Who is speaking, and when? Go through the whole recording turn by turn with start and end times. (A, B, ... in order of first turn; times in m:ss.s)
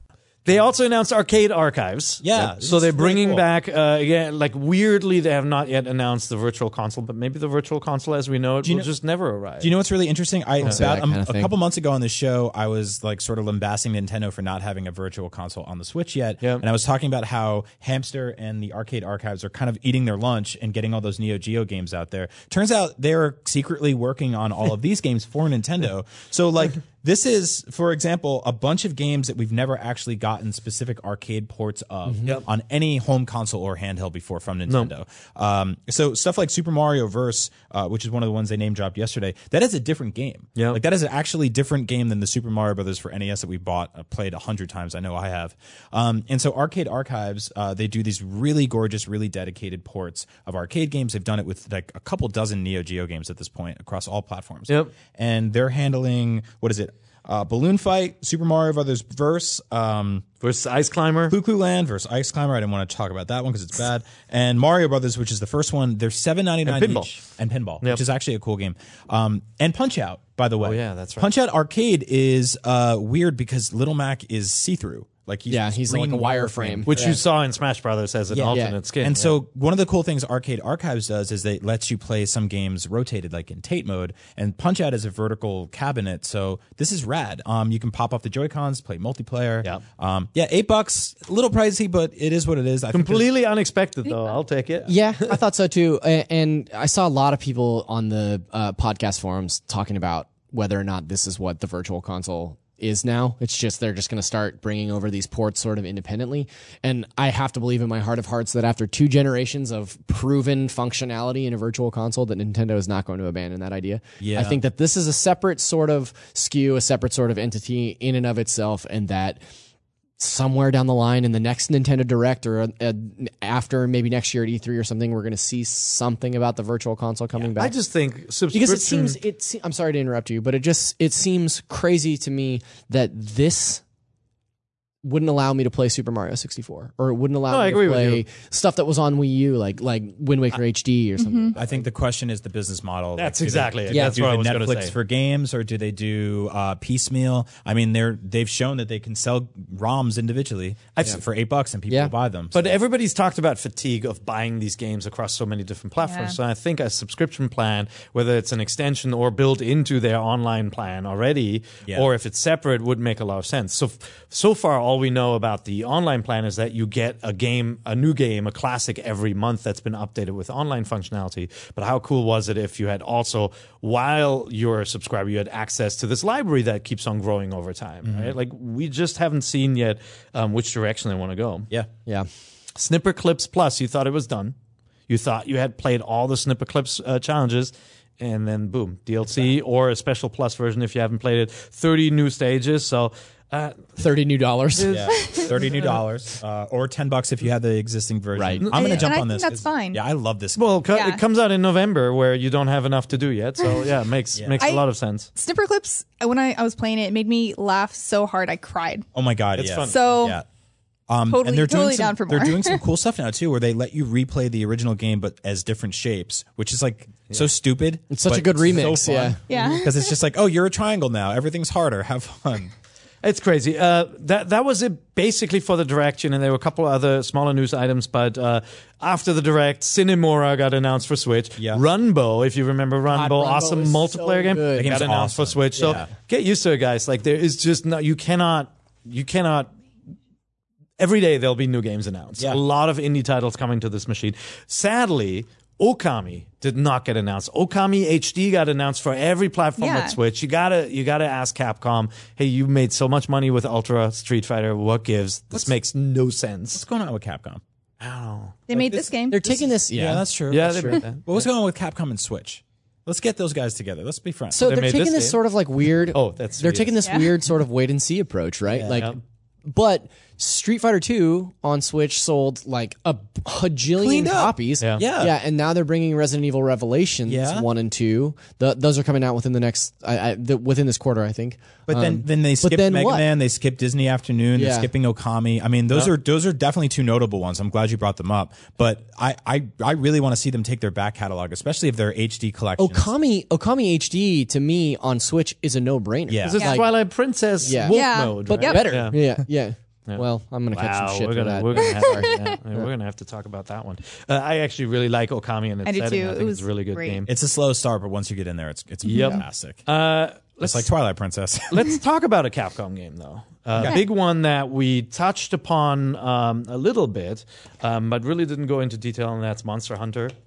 0:00.5-0:09.7 A
0:02.2-0:03.4 B
0:08.6-0:08.9 B
0:09.6-1:00.3 B
0:10.6-0:11.5 C
1:00.4-1:01.4 A
1:01.3-1:17.2 B
1:06.7-1:07.1 A
1:10.6-1:11.3 A
1:15.5-1:17.2 C
1:16.9-1:19.4 A
1:18.3-1:18.8 C
1:18.4-1:33.3 B
1:32.9-1:35.4 A
1:34.9-1:59.4 C
1:54.2-1:54.6 B
2:00.2-2:07.7 C
2:07.4-2:09.2 A
2:08.5-2:13.8 C
2:15.0-2:21.8 C
2:17.5-2:18.2 A
2:21.2-2:21.5 D
2:21.6-2:32.7 B
2:23.2-2:24.9 A
2:23.9-2:24.2 C
2:32.5-3:01.7 A
2:36.0-2:36.4 D
2:58.0-2:58.4 B
3:02.8-3:04.6 A
3:05.1-3:14.0 A
3:14.0-3:15.0 C
3:14.8-3:16.0 A
3:14.8-3:20.6 B
3:15.1-3:15.5 D
3:18.4-3:18.7 C
3:18.6-3:19.0 A
3:18.7-3:20.0 D
3:20.6-3:25.3 A
3:20.9-3:21.2 D
3:23.6-3:23.9 D
3:24.6-3:29.1 D
3:29.2-3:30.4 B
3:29.6-3:30.0 A
3:29.9-3:30.4 D
3:31.1-3:42.7 B
3:31.3-3:32.8 D
3:38.1-3:39.4 C
3:39.5-3:40.1 D
3:43.2-3:59.7 A
3:53.1-3:55.0 C
3:54.8-3:56.1 B
3:55.8-3:56.0 C
4:01.0-4:16.8 A
4:09.8-4:10.2 D
4:16.7-4:17.6 B
4:18.0-4:18.6 A
4:18.7-4:19.6 D
4:18.7-4:24.7 B
4:19.3-4:21.0 C
4:20.5-4:21.5 A
4:24.5-4:43.3 C
4:24.6-4:25.4 A
4:26.0-4:27.0 A
4:27.0-4:27.3 D
4:28.8-4:29.0 B
4:28.8-4:29.2 A
4:34.0-4:35.4 B
4:37.3-4:37.7 B
4:41.9-4:53.1 B
4:44.6-4:44.9 C
4:52.8-4:56.9 C
4:56.3-4:56.6 B
4:56.4-4:59.2 A
4:56.6-4:56.8 D
4:57.6-5:02.9 C
4:57.9-4:58.9 D
5:00.1-5:07.3 A
5:02.1-5:02.4 D
5:05.8-5:07.2 D
5:07.3-5:09.9 B
5:09.1-5:09.4 D
5:09.1-5:10.9 A
5:10.6-5:11.9 B
5:11.7-5:20.3 A